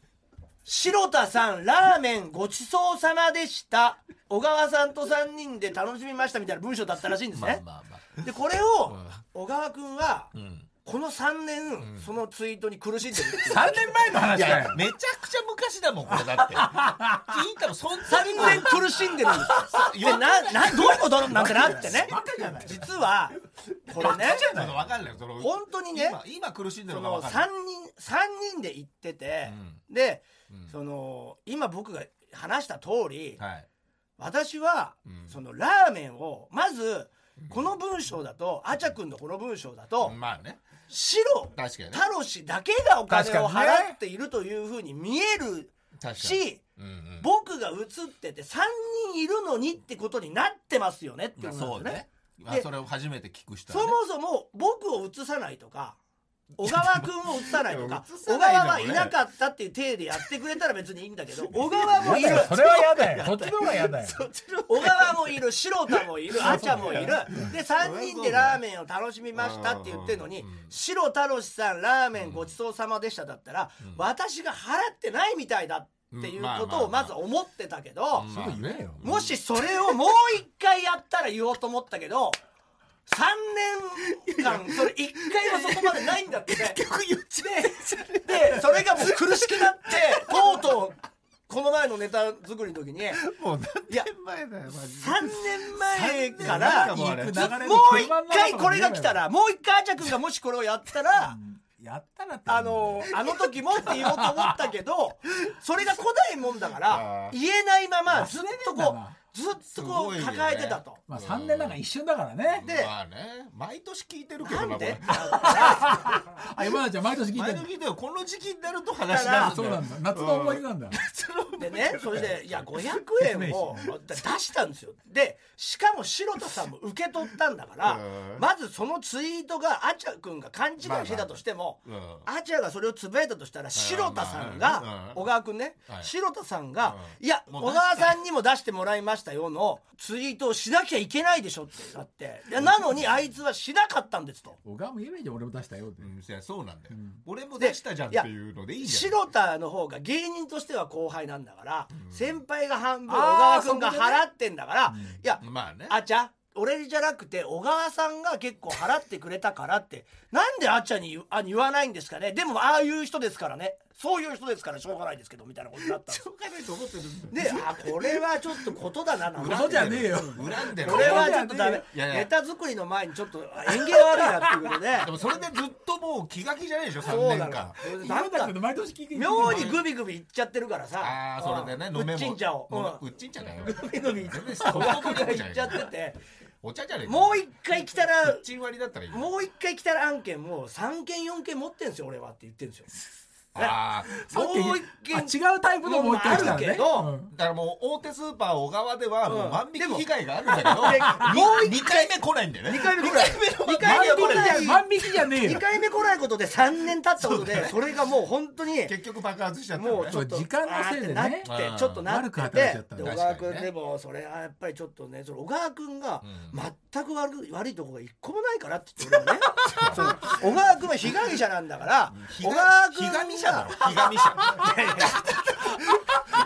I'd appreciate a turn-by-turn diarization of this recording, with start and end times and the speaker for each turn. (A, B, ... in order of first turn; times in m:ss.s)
0:00.6-0:07.6 A
0:07.3-0:08.2 B
0:08.2-0:10.3 A
0:08.8-0:09.2 B
0:10.3-0:10.7 B
0:10.8-0:13.8 A
0:11.8-0:12.1 B
0:13.4-0:14.8 C
0:14.2-0:22.8 B
0:16.1-0:17.4 C
0:18.0-0:24.4 A
0:18.4-0:18.7 C
0:19.3-0:22.9 C
0:23.9-0:27.5 B
0:24.2-0:24.8 C
0:25.4-0:26.2 A
0:26.9-0:33.4 A
0:29.4-0:29.8 B
0:30.5-0:30.8 B
0:33.4-0:33.7 B
0:34.2-0:40.2 A
0:35.0-0:35.4 B
0:37.4-0:37.7 B
0:40.0-0:40.6 B
0:40.9-0:46.6 A
0:41.5-0:42.1 B
0:43.1-0:44.0 C
0:46.0-0:47.3 B
0:47.2-0:52.7 A
0:51.4-0:54.0 B
0:53.7-0:56.0 A
0:56.6-0:59.2 B
0:56.6-1:03.2 A
1:01.4-1:08.6 B
1:02.0-1:04.2 C
1:04.7-1:18.3 A
1:06.4-1:07.5 C
1:09.3-1:10.7 B
1:12.2-1:12.6 B
1:16.1-1:17.2 B
1:18.1-1:20.0 B
1:18.3-1:19.0 C
1:19.0-1:22.4 A
1:23.1-1:26.8 A
1:24.3-1:30.7 B
1:27.4-1:31.0 A
1:31.5-1:33.2 A
1:33.1-1:38.1 B
1:35.0-1:41.4 A
1:36.4-1:39.2 C
1:41.2-1:43.1 C
1:42.5-1:51.0 A
1:43.8-1:44.5 C
1:46.8-1:47.4 B
1:48.1-1:49.2 C
1:49.7-1:51.8 B
1:51.1-1:52.6 C
1:52.5-1:55.7 B
1:52.6-1:52.9 A
1:54.4-1:56.1 A
1:55.4-1:57.7 C
1:57.3-2:03.0 B
1:59.1-1:59.6 A
1:59.1-2:01.0 C
2:01.6-2:24.6 A
2:03.2-2:03.8 C
2:07.8-2:08.5 B
2:10.8-2:12.3 B
2:13.7-2:15.3 B
2:15.9-2:16.1 B
2:16.8-2:18.2 B
2:24.6-2:26.1 C
2:26.0-2:29.2 B
2:26.9-2:27.2 C
2:27.6-2:28.3 A
2:28.8-2:46.2 A
2:31.9-2:32.4 B
2:33.1-2:34.2 C
2:34.9-2:35.2 C
2:35.4-2:36.0 B
2:45.8-2:52.3 B
2:47.3-2:55.1 A
2:49.5-2:51.9 C
2:54.9-2:57.8 B
2:57.0-2:58.6 A
2:57.9-2:59.8 C
2:59.1-3:06.2 A
2:59.4-2:59.8 B
3:01.0-3:05.9 B
3:06.6-3:07.4 B
3:07.1-3:08.4 A
3:08.2-3:09.3 B
3:09.1-3:12.9 A
3:13.5-3:14.2 B
3:13.6-3:17.1 A
3:14.1-3:17.3 C
3:16.3-3:16.7 B
3:17.3-3:24.9 B
3:19.2-3:24.9 A
3:23.8-3:25.6 C
3:25.4-3:29.0 A
3:27.2-3:28.0 B
3:28.8-3:30.2 B
3:29.8-3:45.3 A
3:30.0-3:31.5 C
3:31.4-3:32.1 B
3:32.1-3:33.1 C
3:33.0-3:33.7 B
3:36.2-3:36.6 B
3:39.6-3:40.4 B
3:39.7-3:40.0 C
3:42.1-3:45.8 B